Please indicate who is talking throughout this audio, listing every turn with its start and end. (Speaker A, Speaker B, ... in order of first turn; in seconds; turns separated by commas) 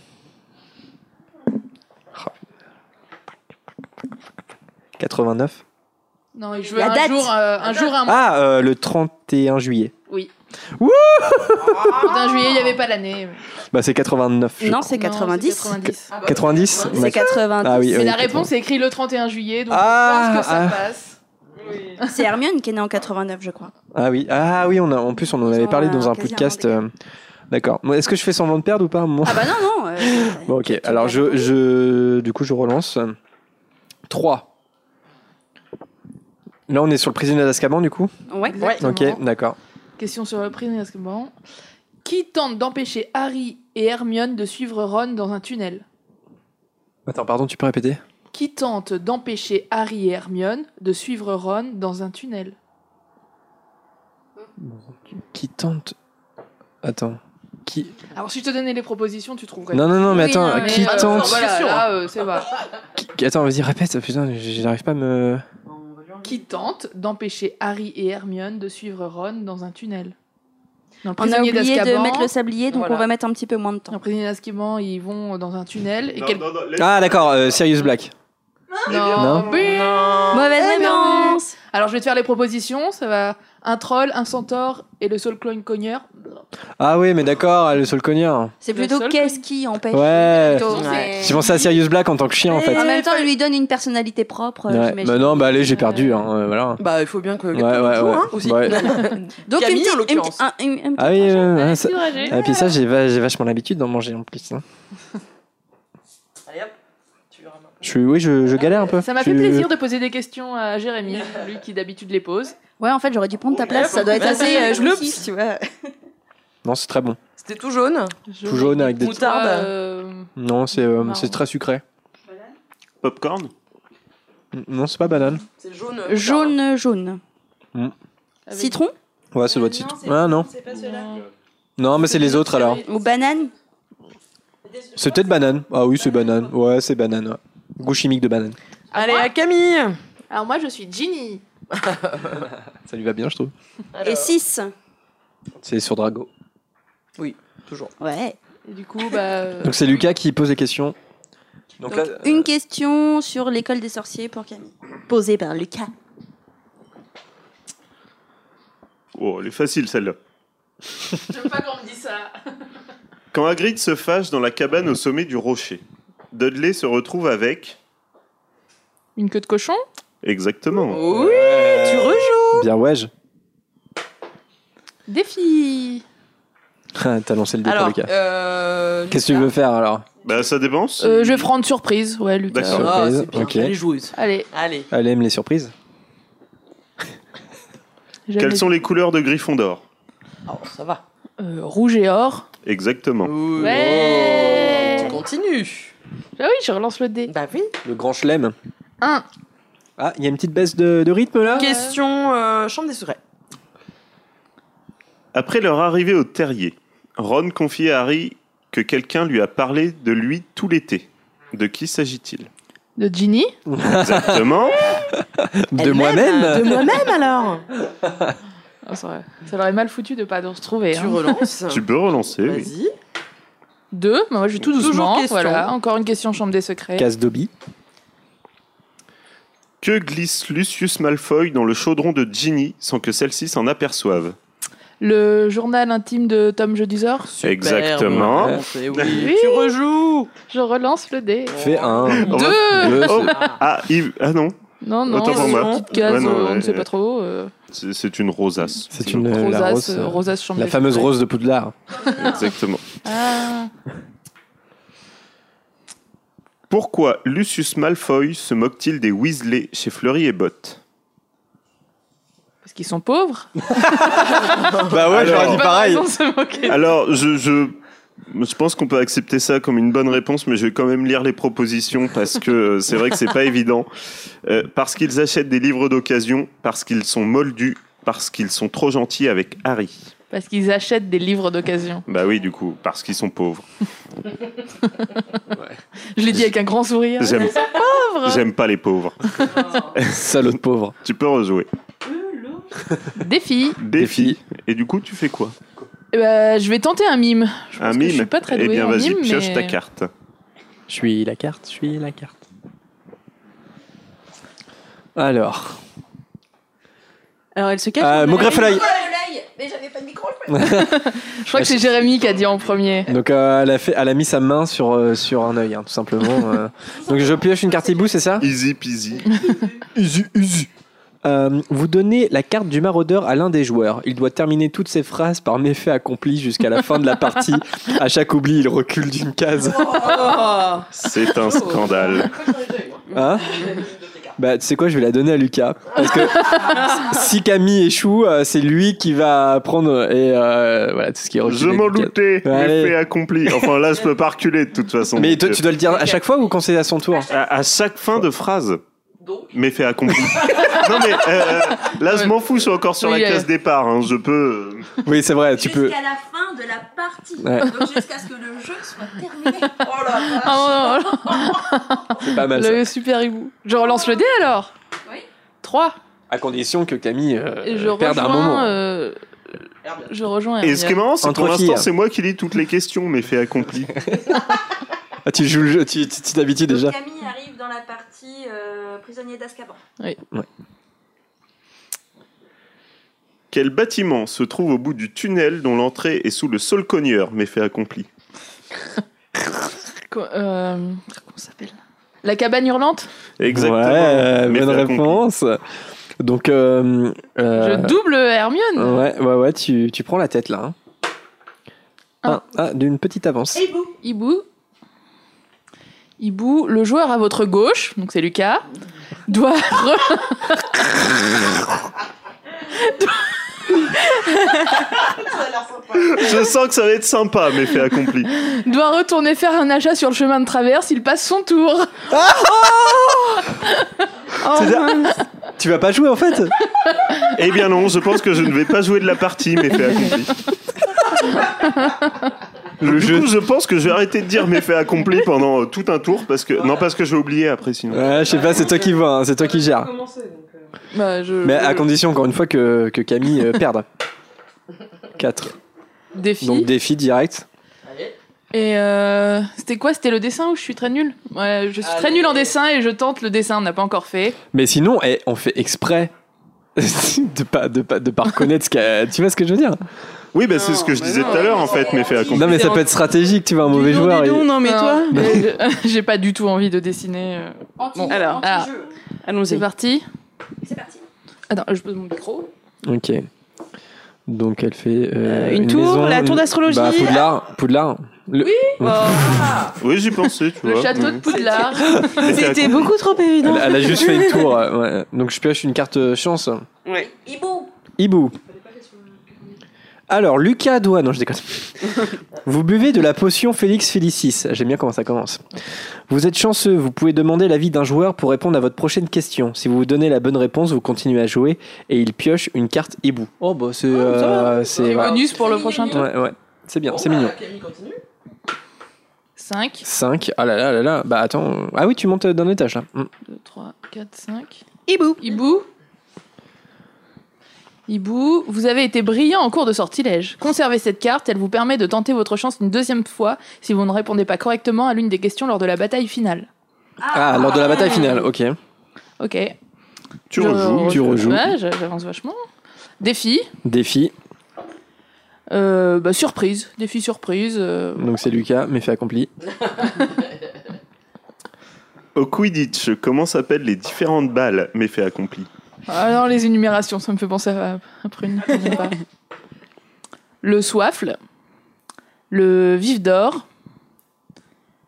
Speaker A: 5.0-5.6, Speaker B: 6.3-8.3, Speaker C: 6.7-7.3, Speaker D: 7.6-7.9, Speaker A: 8.0-9.9, Speaker A: 10.8-12.2, Speaker D: 11.7-12.1, Speaker B: 12.0-13.4, Speaker A: 13.7-14.9, Speaker C: 14.6-15.8, Speaker B: 14.8-16.2, Speaker D: 16.1-17.3, Speaker A: 16.1-18.5, Speaker C: 16.8-18.1, Speaker B: 17.9-21.2, Speaker A: 19.7-20.8, Speaker D: 21.6-21.9, Speaker C: 22.0-23.7, Speaker A: 23.9-26.9, Speaker C: 25.4-26.8, Speaker A: 27.5-33.1, Speaker C: 29.2-31.5, Speaker A: 34.1-34.5, Speaker A: 36.7-38.1, Speaker C: 38.3-38.6, Speaker B: 38.5-39.2, Speaker D: 38.6-38.9, Speaker A: 38.8-39.6, Speaker B: 40.0-41.3, Speaker B: 42.0-45.8, Speaker A: 47.0-48.0, Speaker B: 48.3-52.5, Speaker A: 54.6-56.0, Speaker A: 56.8-58.0, Speaker B: 58.1-62.5, Speaker A: 59.7-61.5, Speaker C: 60.1-61.2, Speaker D: 60.9-61.9, Speaker A: 63.0-65.4, Speaker D: 65.7-66.6, Speaker B: 66.2-70.1, Speaker B: 71.0-72.3, Speaker C: 71.2-74.0, Speaker D: 72.7-73.1, Speaker B: 73.9-76.4, Speaker E: 76.1-77.6, Speaker A: 76.8-78.1, Speaker B: 78.8-86.4, Speaker E: 78.9-79.8, Speaker A: 79.2-79.5, Speaker D: 79.5-81.3, Speaker C: 80.3-81.5, Speaker A: 86.8-88.5, Speaker C: 88.6-91.6, Speaker B: 88.7-89.4, Speaker A: 89.9-92.9, Speaker B: 90.6-91.0, Speaker D: 90.7-91.4, Speaker D: 92.5-93.3, Speaker C: 92.7-96.0, Speaker A: 94.7-96.8, Speaker D: 96.8-100.4, Speaker A: 97.5-99.1, Speaker C: 99.5-101.7, Speaker A: 101.0-104.6, Speaker B: 101.5-102.4, Speaker D: 106.5-106.7, Speaker D: 107.3-107.8, Speaker A: 107.8-109.7, Speaker B: 109.0-112.5, Speaker C: 112.8-115.9, Speaker D: 113.6-115.2, Speaker B: 114.2-114.8, Speaker A: 116.6-117.2, Speaker D: 117.4-118.2, Speaker B: 118.3-121.4, Speaker A: 118.4-119.3, Speaker D: 118.9-119.7, Speaker A: 120.3-121.8, Speaker E: 123.0-123.5, Speaker A: 124.5-125.4, Speaker D: 125.6-126.5, Speaker C: 126.1-127.2, Speaker B: 128.5-128.8, Speaker C: 128.5-128.9, Speaker A: 129.3-130.5, Speaker D: 130.1-131.0, Speaker B: 130.7-131.2, Speaker A: 131.8-132.8, Speaker B: 132.0-132.8, Speaker C: 132.8-133.5, Speaker A: 134.9-138.6, Speaker D: 138.9-140.0, Speaker B: 138.9-139.3, Speaker B: 140.3-141.4, Speaker D: 141.8-142.4, Speaker A: 142.8-143.5, Speaker D: 143.9-144.3, Speaker C: 144.0-144.7, Speaker A: 145.6-146.3, Speaker D: 147.2-147.9, Speaker C: 148.0-148.4, Speaker B: 148.7-149.9, Speaker A: 149.6-150.9, Speaker A: 151.8-152.5, Speaker C: 151.8-155.9, Speaker E: 159.1-160.2, Speaker B: 161.3-162.3, Speaker E: 163.3-167.8, Speaker B: 169.2-169.8, Speaker E: 170.2-171.0, Speaker D: 170.9-172.7, Speaker A: 171.0-173.1, Speaker B: 175.1-176.0, Speaker A: 176.9-178.1, Speaker D: 177.6-179.5, Speaker A: 179.1-180.1, Speaker E: 180.2-181.5, Speaker B: 181.0-182.8, Speaker E: 182.5-182.9, Speaker A: 182.6-183.7, Speaker D: 182.7-184.9, Speaker B: 184.1-184.5, Speaker A: 184.9-185.7, Speaker B: 188.3-188.7, Speaker E: 188.3-189.8, Speaker D: 190.4-191.0, Speaker B: 191.4-192.4, Speaker E: 192.6-193.4, Speaker D: 193.2-195.9, Speaker B: 193.6-195.2, Speaker A: 193.7-194.1, Speaker B: 196.4-197.3, Speaker D: 197.3-197.7, Speaker A: 197.8-198.6, Speaker A: 200.0-201.7, Speaker B: 201.4-201.9, Speaker D: 201.6-203.2, Speaker E: 205.3-212.5, Speaker B: 213.0-213.5, Speaker A: 213.7-214.6, Speaker E: 214.0-215.1, Speaker A: 215.2-217.0, Speaker D: 215.8-217.7, Speaker B: 218.8-221.4, Speaker D: 220.9-221.8, Speaker E: 221.7-222.7, Speaker D: 222.4-222.9, Speaker B: 223.9-227.1, Speaker D: 224.8-225.7, Speaker A: 227.0-227.5, Speaker E: 229.8-234.3, Speaker B: 235.0-237.3, Speaker D: 237.3-240.3, Speaker E: 237.4-239.3, Speaker A: 238.0-238.6, Speaker B: 239.2-239.7, Speaker B: 240.5-241.6, Speaker D: 241.5-242.5, Speaker A: 241.6-243.4, Speaker E: 242.2-244.6, Speaker B: 242.2-243.3, Speaker D: 243.2-243.6, Speaker B: 244.8-247.5, Speaker E: 245.1-246.9, Speaker D: 245.1-246.3, Speaker E: 247.7-249.4, Speaker A: 248.9-251.7, Speaker B: 249.3-251.1, Speaker E: 252.2-252.9, Speaker B: 253.0-253.7, Speaker E: 256.7-260.8, Speaker B: 262.6-264.6, Speaker A: 263.7-266.1, Speaker E: 265.1-265.7, Speaker B: 265.1-266.9, Speaker E: 266.7-267.8, Speaker E: 268.3-273.9, Speaker E: 274.4-280.1, Speaker B: 280.3-282.0, Speaker E: 282.1-283.7, Speaker B: 286.1-288.4, Speaker E: 287.2-290.3, Speaker A: 290.0-290.9, Speaker E: 291.0-291.7, Speaker B: 293.2-293.8, Speaker E: 293.8-295.5, Speaker A: 293.9-294.4, Speaker B: 296.1-299.8, Speaker E: 297.8-300.1, Speaker A: 300.9-302.3, Speaker A: 305.1-305.8, Speaker F: 307.6-307.9, Speaker A: 308.0-308.9, Speaker B: 308.0-308.6, Speaker C: 308.6-310.4, Speaker A: 310.5-312.0, Speaker B: 310.7-313.1, Speaker A: 313.1-318.5, Speaker E: 318.4-319.3, Speaker A: 319.9-320.7, Speaker A: 321.2-330.5, Speaker D: 329.6-334.3, Speaker E: 330.9-332.4, Speaker A: 333.1-333.8, Speaker A: 334.4-343.0, Speaker D: 335.9-336.9, Speaker B: 336.4-336.8, Speaker E: 341.4-345.6, Speaker A: 345.1-347.3, Speaker E: 347.3-348.8, Speaker D: 349.2-349.5, Speaker E: 349.5-354.9, Speaker B: 353.0-353.5, Speaker A: 355.0-355.9, Speaker C: 355.5-359.8, Speaker A: 357.4-357.7, Speaker D: 359.8-360.7, Speaker B: 360.1-364.7, Speaker A: 362.2-362.8, Speaker B: 365.6-366.0, Speaker A: 366.3-368.8, Speaker B: 367.6-369.2, Speaker D: 369.8-370.1, Speaker B: 370.1-371.0, Speaker E: 370.6-374.1, Speaker A: 371.2-371.9, Speaker A: 375.2-376.9, Speaker C: 376.7-379.8, Speaker E: 383.5-388.1, Speaker B: 390.1-393.1, Speaker E: 393.4-395.2, Speaker A: 393.5-395.6, Speaker A: 396.2-398.0, Speaker B: 397.6-399.0, Speaker A: 398.8-400.7, Speaker A: 402.2-403.7, Speaker B: 404.0-404.4, Speaker B: 406.2-408.6, Speaker B: 409.3-411.3, Speaker B: 412.8-414.9, Speaker D: 415.7-416.1, Speaker E: 415.9-418.3, Speaker B: 418.5-422.0, Speaker A: 422.1-423.3, Speaker F: 424.4-425.1, Speaker A: 424.4-426.5, Speaker E: 427.3-430.3, Speaker E: 432.8-438.3, Speaker A: 432.8-433.3, Speaker A: 437.9-439.9, Speaker D: 438.0-440.7, Speaker B: 440.9-441.9, Speaker A: 441.4-443.9, Speaker A: 445.2-445.6, Speaker B: 446.1-446.7, Speaker A: 446.4-447.4, Speaker D: 447.8-448.1, Speaker B: 448.5-454.4, Speaker D: 451.8-452.5, Speaker A: 454.5-456.1, Speaker A: 456.8-459.8, Speaker E: 460.3-462.8, Speaker F: 460.5-461.8, Speaker D: 461.2-462.2, Speaker C: 461.3-462.4, Speaker A: 462.3-464.5, Speaker F: 462.5-462.8, Speaker F: 463.7-465.3, Speaker B: 464.6-468.7, Speaker A: 465.1-465.4, Speaker C: 467.8-468.9, Speaker F: 468.1-468.5, Speaker F: 469.2-469.6, Speaker B: 469.5-470.1, Speaker C: 470.6-471.0, Speaker B: 471.5-472.5, Speaker A: 472.8-473.3, Speaker A: 474.3-479.4, Speaker F: 475.2-477.2, Speaker D: 478.8-479.7, Speaker E: 479.8-481.3, Speaker B: 480.6-482.5, Speaker D: 481.3-481.6, Speaker E: 482.2-482.9, Speaker F: 482.4-483.7, Speaker A: 483.4-486.6, Speaker D: 483.6-484.4, Speaker C: 486.9-487.7, Speaker A: 488.0-488.4, Speaker A: 490.1-495.4, Speaker A: 496.1-505.2, Speaker D: 503.9-506.0, Speaker B: 504.8-506.1, Speaker A: 505.9-507.3, Speaker D: 506.8-508.0, Speaker B: 509.4-509.8, Speaker A: 509.8-513.1, Speaker B: 513.2-514.6, Speaker F: 514.9-515.2, Speaker B: 515.2-515.7, Speaker B: 517.9-526.5, Speaker C: 527.0-528.2, Speaker A: 527.1-528.6, Speaker B: 529.2-529.5, Speaker E: 530.3-531.3, Speaker B: 530.3-532.4, Speaker A: 530.8-531.5, Speaker B: 533.0-533.5, Speaker A: 533.6-534.1, Speaker B: 535.5-538.1, Speaker A: 538.0-539.3, Speaker E: 542.1-545.5, Speaker B: 545.9-549.0, Speaker B: 550.4-551.2, Speaker B: 552.3-553.4